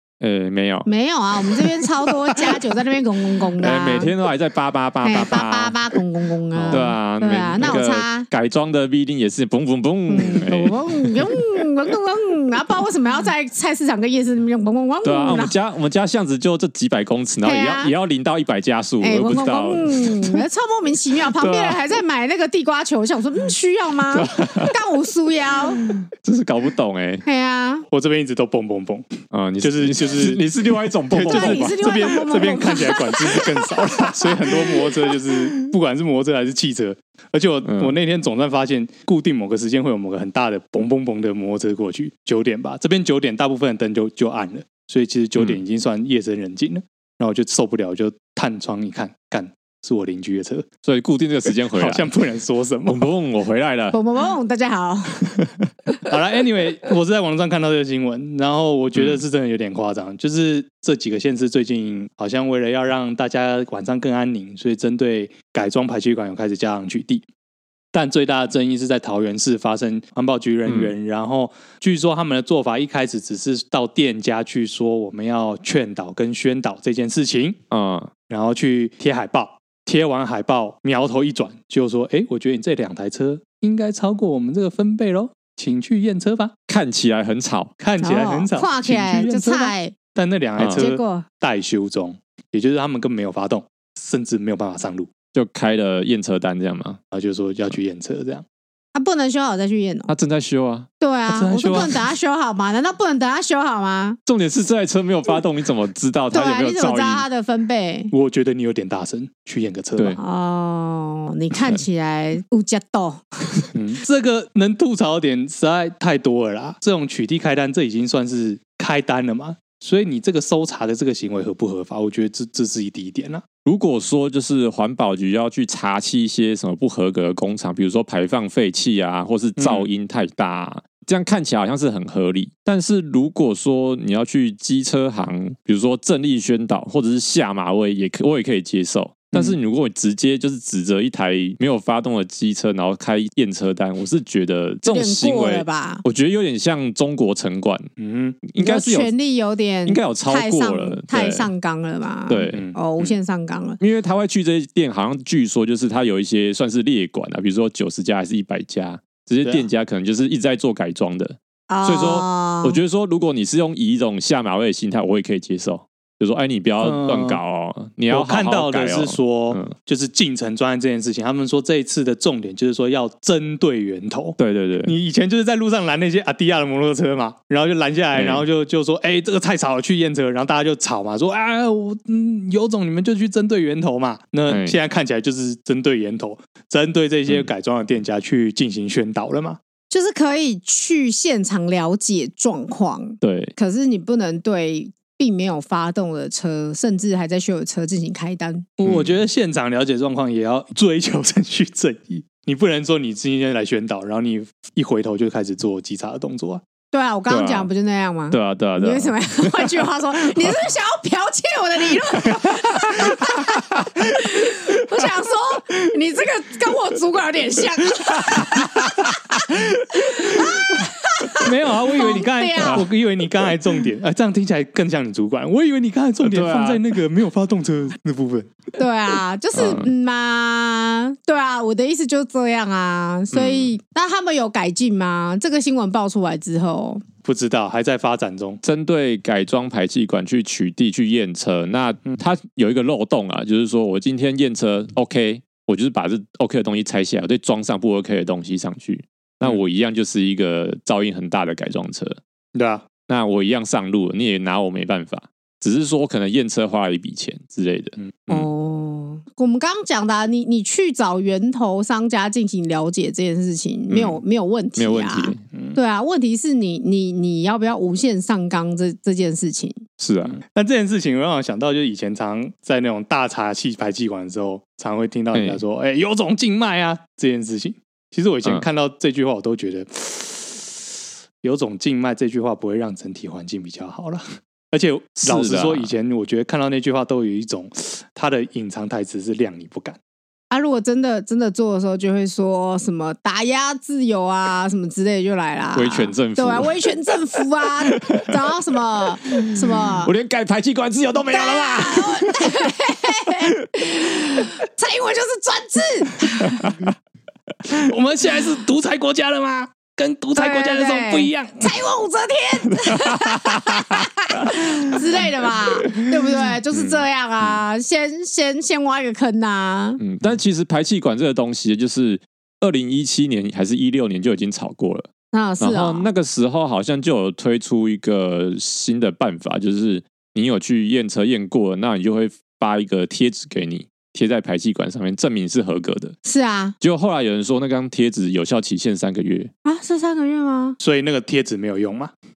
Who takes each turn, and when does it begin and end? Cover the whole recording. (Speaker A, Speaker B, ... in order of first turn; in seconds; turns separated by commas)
Speaker A: 0.2-0.9, Speaker B: 0.8-4.1, Speaker A: 3.6-5.8, Speaker B: 5.0-8.3, Speaker C: 6.5-6.9, Speaker A: 6.7-11.3, Speaker B: 10.1-15.6, Speaker A: 15.0-20.4, Speaker B: 17.4-17.9, Speaker B: 19.0-25.9, Speaker A: 21.4-21.8, Speaker A: 24.1-24.7, Speaker A: 26.1-27.2, Speaker B: 27.2-27.9, Speaker C: 27.9-29.1, Speaker A: 29.3-32.2, Speaker C: 29.6-30.4, Speaker C: 31.1-50.7, Speaker B: 31.3-33.4, Speaker A: 37.6-37.9, Speaker A: 50.8-52.1, Speaker C: 51.7-53.1, Speaker A: 52.9-54.0, Speaker B: 53.9-55.3, Speaker C: 56.0-67.2, Speaker A: 58.9-59.2, Speaker C: 67.9-77.6, Speaker A: 70.7-70.9, Speaker A: 77.7-78.1, Speaker C: 78.3-86.5, Speaker A: 86.7-87.7, Speaker C: 87.8-95.1, Speaker B: 88.0-89.9, Speaker A: 90.6-90.9, Speaker B: 90.8-91.2, Speaker A: 95.3-97.0, Speaker C: 97.1-98.4, Speaker B: 98.9-100.1, Speaker A: 100.1-100.9, Speaker B: 101.0-104.2, Speaker C: 101.3-102.0, Speaker A: 104.2-107.2, Speaker B: 106.3-108.1, Speaker C: 108.1-110.2, Speaker B: 110.2-113.7, Speaker A: 111.5-111.8, Speaker C: 113.7-123.4, Speaker A: 123.6-147.9, Speaker C: 129.6-129.9, Speaker C: 139.3-139.6, Speaker B: 144.8-146.0, Speaker C: 148.0-148.4, Speaker A: 148.4-149.1, Speaker B: 148.6-153.8, Speaker A: 149.8-151.5, Speaker A: 152.3-153.1, Speaker C: 152.5-152.8, Speaker A: 153.8-169.7, Speaker B: 161.7-162.8, Speaker C: 166.8-167.4, Speaker C: 168.1-189.6, Speaker A: 174.4-174.9, Speaker A: 178.1-178.4, Speaker A: 184.5-184.8, Speaker B: 189.9-198.7, Speaker A: 193.2-193.5, Speaker C: 198.8-206.6, Speaker A: 198.8-199.2, Speaker B: 206.9-219.4, Speaker A: 207.3-207.7, Speaker A: 208.3-209.8, Speaker A: 218.3-219.1, Speaker B: 219.9-222.9, Speaker C: 221.4-228.6, Speaker A: 222.6-222.8, Speaker A: 226.2-226.8, Speaker B: 228.8-237.0, Speaker A: 229.5-229.9, Speaker A: 233.3-233.7, Speaker C: 237.2-238.6, Speaker A: 238.6-252.2, Speaker C: 252.5-252.8, Speaker A: 253.1-258.5, Speaker B: 258.3-269.8, Speaker A: 263.9-264.2, Speaker A: 264.8-265.4, Speaker C: 265.5-265.8, Speaker A: 270.0-270.4, Speaker C: 270.2-280.7, Speaker A: 275.3-275.6, Speaker C: 281.4-290.0, Speaker A: 285.2-285.9, Speaker B: 290.5-300.1, Speaker A: 295.7-298.3, Speaker A: 299.3-302.7, Speaker B: 301.3-306.7, Speaker A: 306.6-306.9, Speaker C: 307.7-311.8, Speaker B: 310.4-320.0, Speaker A: 312.8-314.5, Speaker A: 320.0-325.1, Speaker B: 325.3-326.1, Speaker A: 325.6-336.1, Speaker B: 336.2-336.7, Speaker A: 336.8-339.5, Speaker B: 339.6-340.8, Speaker C: 340.8-342.1